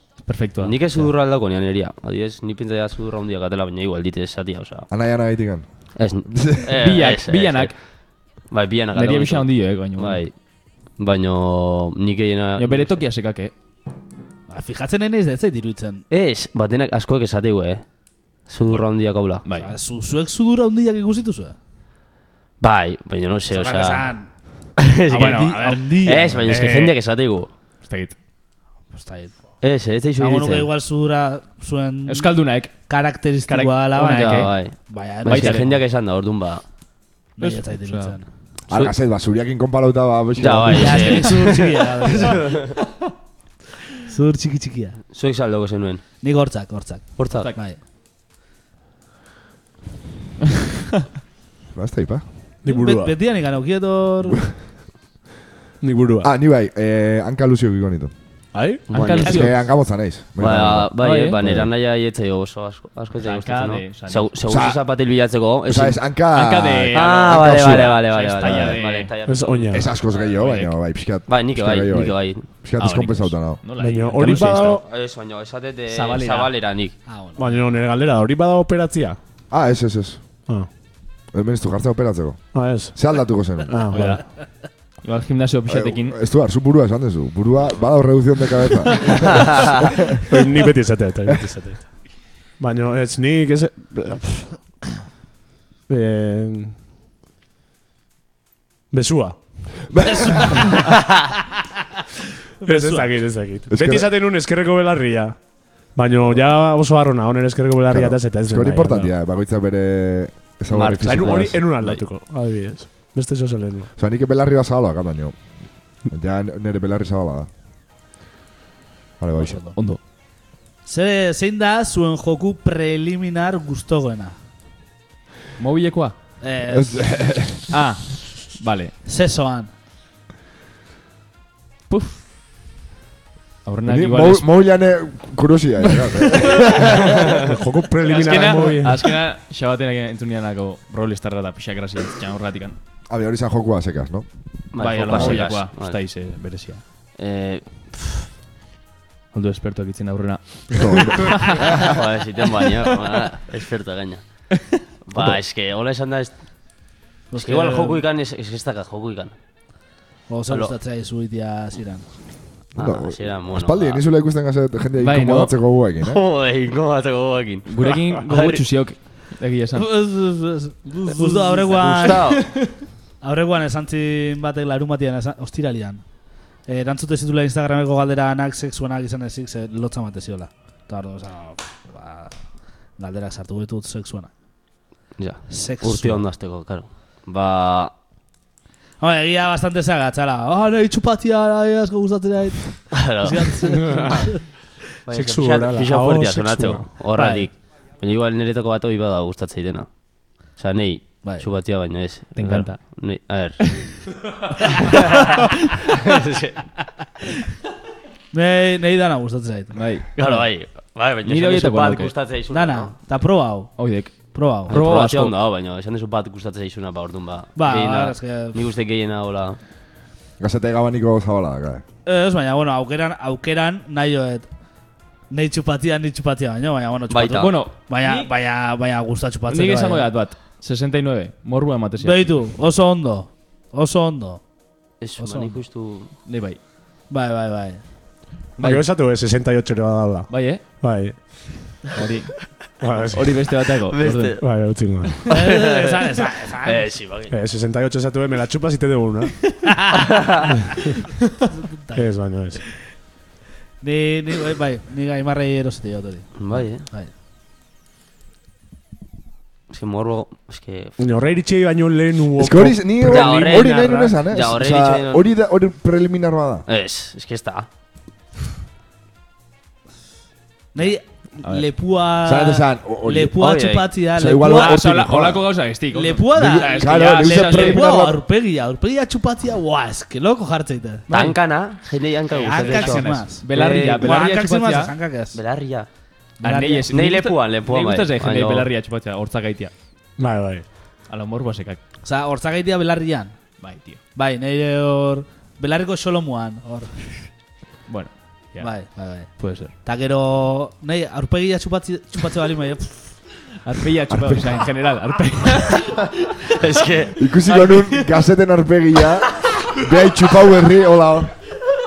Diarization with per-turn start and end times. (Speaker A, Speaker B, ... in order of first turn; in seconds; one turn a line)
Speaker A: 0.2-1.1
Speaker B: 0.5-4.9
Speaker C: 4.9-6.8
Speaker B: 6.0-7.8
Speaker A: 6.7-7.8
Speaker B: 8.5-10.3
Speaker A: 8.9-10.2
Speaker B: 11.0-13.0
Speaker A: 12.6-13.5
Speaker D: 14.5-16.0
Speaker B: 16.1-17.8
Speaker B: 18.5-19.4
Speaker A: 19.4-19.7
Speaker D: 19.6-21.5
Speaker B: 22.6-24.1
Speaker D: 23.5-24.3
Speaker B: 24.8-27.5
Speaker D: 25.1-26.7
Speaker A: 25.1-26.9
Speaker A: 27.8-28.1
Speaker D: 28.9-29.4
Speaker B: 29.6-30.7
Speaker D: 30.2-35.7
Speaker A: 32.1-32.7
Speaker A: 33.5-34.5
Speaker B: 34.1-36.6
Speaker A: 35.2-35.8
Speaker D: 37.4-38.2
Speaker A: 37.4-38.2
Speaker C: 38.7-41.2
Speaker B: 40.4-42.8
Speaker D: 40.7-42.5
Speaker D: 44.0-45.0
Speaker B: 45.1-46.0
Speaker D: 46.2-47.8
Speaker B: 47.2-47.5
Speaker A: 47.3-47.6
Speaker C: 51.7-52.3
Speaker E: 52.6-53.2
Speaker D: 52.6-54.4
Speaker E: 55.8-56.3
Speaker C: 56.2-58.1
Speaker E: 58.5-58.8
Speaker A: 58.9-59.6
Speaker B: 58.9-59.5
Speaker C: 59.2-61.7
Speaker B: 60.4-66.0
Speaker A: 61.0-61.4
Speaker A: 63.2-64.4
Speaker C: 64.5-64.8
Speaker C: 65.7-68.8
Speaker A: 66.2-69.1
Speaker B: 66.9-70.3
Speaker E: 69.2-69.9
Speaker C: 69.7-73.6
Speaker A: 70.3-70.7
Speaker B: 71.3-72.5
Speaker A: 72.8-74.8
Speaker E: 73.8-74.8
Speaker B: 74.5-76.9
Speaker A: 75.9-76.5
Speaker D: 77.1-77.4
Speaker E: 77.4-79.2
Speaker C: 79.5-80.2
Speaker C: 81.3-83.8
Speaker E: 82.5-83.0
Speaker E: 83.6-84.2
Speaker A: 83.9-86.1
Speaker C: 85.7-90.2
Speaker E: 90.2-91.9
Speaker E: 92.6-94.6
Speaker E: 95.9-96.7
Speaker E: 98.9-99.4
Speaker C: 99.9-100.8
Speaker D: 100.2-100.8
Speaker D: 102.6-103.1
Speaker E: 102.6-105.4
Speaker C: 103.7-104.1
Speaker E: 105.9-109.1
Speaker C: 107.9-111.6
Speaker B: 110.7-111.9
Speaker E: 111.0-113.9
Speaker C: 114.0-117.5
Speaker C: 119.2-119.7
Speaker D: 119.4-119.8
Speaker A: 119.7-120.0
Speaker D: 120.8-124.3
Speaker A: 125.6-126.2
Speaker D: 126.4-127.1
Speaker C: 126.7-127.7
Speaker A: 127.7-128.9
Speaker D: 129.1-129.7
Speaker A: 131.9-132.3
Speaker A: 133.6-134.5
Speaker C: 133.8-137.4
Speaker E: 137.3-139.2
Speaker A: 138.0-142.8
Speaker C: 143.1-144.3
Speaker B: 144.7-146.0
Speaker A: 144.7-146.8
Speaker C: 145.1-145.4
Speaker B: 147.2-148.3
Speaker A: 149.3-151.7
Speaker C: 150.7-151.6
Speaker B: 151.6-154.4
Speaker A: 154.5-154.8
Speaker B: 155.0-156.4
Speaker D: 157.3-158.0
Speaker B: 157.4-159.3
Speaker D: 160.3-162.1
Speaker B: 160.5-160.7
Speaker B: 162.8-164.0
Speaker C: 162.8-166.2
Speaker A: 165.0-165.5
Speaker B: 166.0-168.6
Speaker A: 167.7-170.3
Speaker D: 169.7-172.6
Speaker B: 171.7-172.5
Speaker A: 172.0-172.8
Speaker D: 173.2-176.0
Speaker D: 176.6-182.4
Speaker D: 183.0-184.3
Speaker B: 185.2-187.9
Speaker D: 185.5-186.2
Speaker D: 189.0-194.4
Speaker B: 192.9-193.6
Speaker E: 193.9-194.2
Speaker B: 195.1-204.2
Speaker E: 195.1-196.9
Speaker D: 197.1-197.5
Speaker A: 202.3-202.9
Speaker A: 203.6-204.0
Speaker B: 204.8-205.3
Speaker B: 205.9-206.6
Speaker D: 208.3-209.8
Speaker A: 209.7-210.5
Speaker B: 210.2-212.9
Speaker A: 211.2-212.1
Speaker D: 212.5-214.7
Speaker A: 213.8-215.3
Speaker B: 214.7-219.6
Speaker D: 217.6-218.6
Speaker C: 220.4-221.8
Speaker D: 222.1-224.5
Speaker D: 225.3-230.1
Speaker B: 227.1-227.6
Speaker A: 227.3-228.3
Speaker A: 229.5-232.4
Speaker D: 232.0-234.4
Speaker B: 235.0-236.1
Speaker D: 235.2-235.6
Speaker A: 236.2-236.6
Speaker D: 237.1-237.8
Speaker A: 238.6-238.8
Speaker E: 238.6-241.1
Speaker A: 240.3-240.6
Speaker A: 241.9-244.8
Speaker E: 242.8-243.5
Speaker B: 243.9-244.6
Speaker E: 244.4-245.2
Speaker D: 245.3-246.9
Speaker B: 245.3-247.3
Speaker E: 247.3-249.5
Speaker B: 250.0-250.4
Speaker D: 251.5-252.4
Speaker E: 251.9-252.6
Speaker D: 253.8-257.1
Speaker B: 256.4-256.9
Speaker B: 259.7-260.9
Speaker E: 261.0-263.9
Speaker C: 262.4-266.6
Speaker B: 263.0-265.3
Speaker B: 266.7-267.7
Speaker D: 270.7-274.8
Speaker C: 272.2-273.3
Speaker B: 273.4-273.9
Speaker C: 274.1-275.5
Speaker A: 274.4-278.0
Speaker D: 275.9-281.3
Speaker C: 276.4-278.2
Speaker B: 281.1-284.2
Speaker A: 282.4-284.9
Speaker D: 282.4-283.5
Speaker D: 284.0-285.4
Speaker B: 285.3-285.9
Speaker A: 286.4-289.7
Speaker D: 286.4-286.9
Speaker B: 286.9-288.7
Speaker E: 290.2-290.6
Speaker A: 291.1-291.8
Speaker D: 292.0-293.4
Speaker A: 293.6-294.0
Speaker D: 294.1-296.9
Speaker A: 297.9-299.7
Speaker D: 298.6-303.1
Speaker A: 303.6-306.5
Speaker C: 304.1-304.6
Speaker B: 306.5-307.2
Speaker C: 307.2-311.3
Speaker A: 307.5-308.0